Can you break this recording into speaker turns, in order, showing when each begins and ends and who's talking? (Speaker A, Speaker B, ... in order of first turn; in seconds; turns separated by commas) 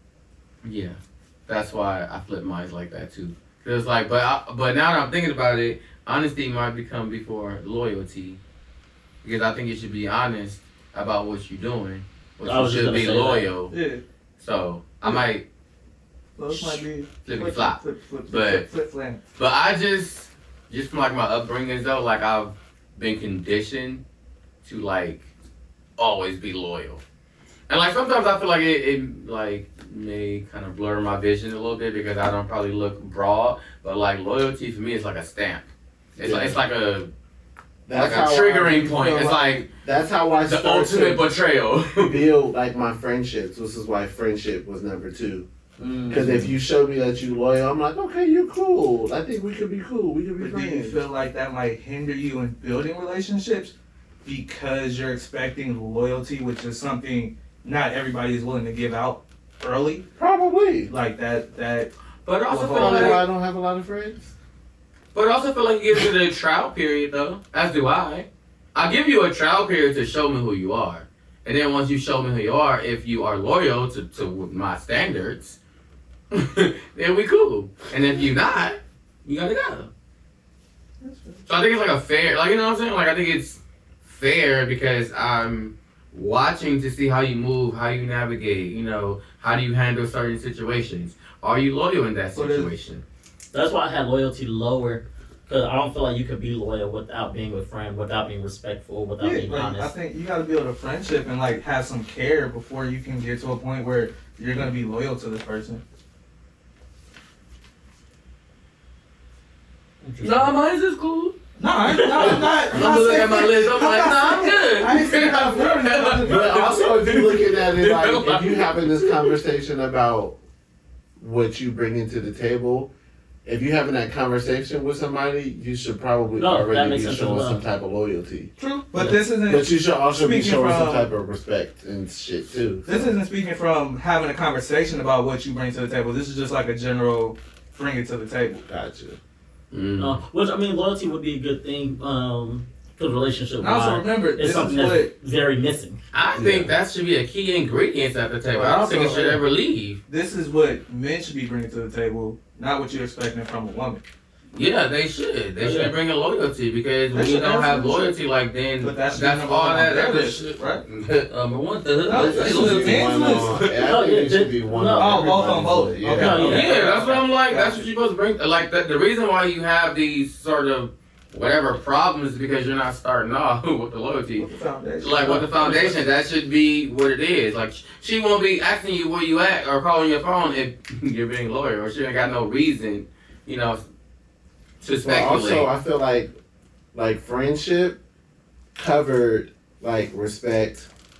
Speaker A: 0.6-8.4, Speaker A: 9.2-13.7, Speaker B: 12.4-13.5, Speaker C: 13.7-14.0, Speaker A: 14.4-15.4, Speaker C: 16.4-19.2, Speaker A: 16.5-18.7, Speaker A: 19.4-24.0, Speaker A: 24.6-25.2, Speaker A: 26.0-27.0, Speaker A: 27.7-35.6, Speaker D: 36.2-36.6, Speaker A: 36.2-37.1, Speaker D: 37.9-41.2, Speaker A: 37.9-39.7, Speaker A: 40.4-42.2, Speaker D: 42.0-45.5, Speaker D: 46.1-51.0, Speaker C: 50.4-53.7, Speaker C: 54.2-60.0, Speaker D: 60.2-60.9, Speaker C: 60.9-61.9, Speaker A: 62.2-63.2, Speaker C: 62.5-63.2, Speaker D: 62.6-64.3, Speaker A: 65.1-75.6, Speaker A: 76.3-79.9, Speaker C: 81.0-81.4, Speaker A: 81.5-93.0, Speaker C: 92.3-92.7, Speaker B: 93.5-99.9, Speaker C: 99.2-105.8, Speaker B: 110.0-110.5, Speaker A: 110.2-111.3, Speaker C: 111.6-116.9, Speaker A: 111.9-119.4, Speaker D: 116.2-120.4, Speaker D: 121.2-122.9, Speaker D: 123.4-128.5, Speaker B: 126.4-127.6, Speaker C: 128.6-131.1, Speaker D: 129.4-133.1, Speaker C: 132.8-138.6, Speaker D: 138.7-139.2, Speaker A: 139.7-140.2, Speaker B: 140.0-146.0, Speaker C: 143.6-145.1, Speaker A: 146.1-150.0, Speaker D: 146.3-146.7, Speaker C: 148.5-149.4, Speaker C: 150.1-154.0, Speaker A: 154.5-163.8, Speaker B: 155.6-155.9, Speaker C: 157.1-158.2, Speaker C: 158.8-160.8, Speaker C: 162.1-163.5, Speaker D: 162.1-166.4, Speaker B: 163.8-165.3, Speaker C: 164.9-167.9, Speaker B: 166.1-166.8, Speaker A: 166.2-174.5, Speaker C: 174.4-176.1, Speaker A: 175.0-183.8, Speaker A: 184.8-185.7, Speaker D: 184.9-186.3, Speaker D: 186.9-188.0, Speaker D: 188.8-190.9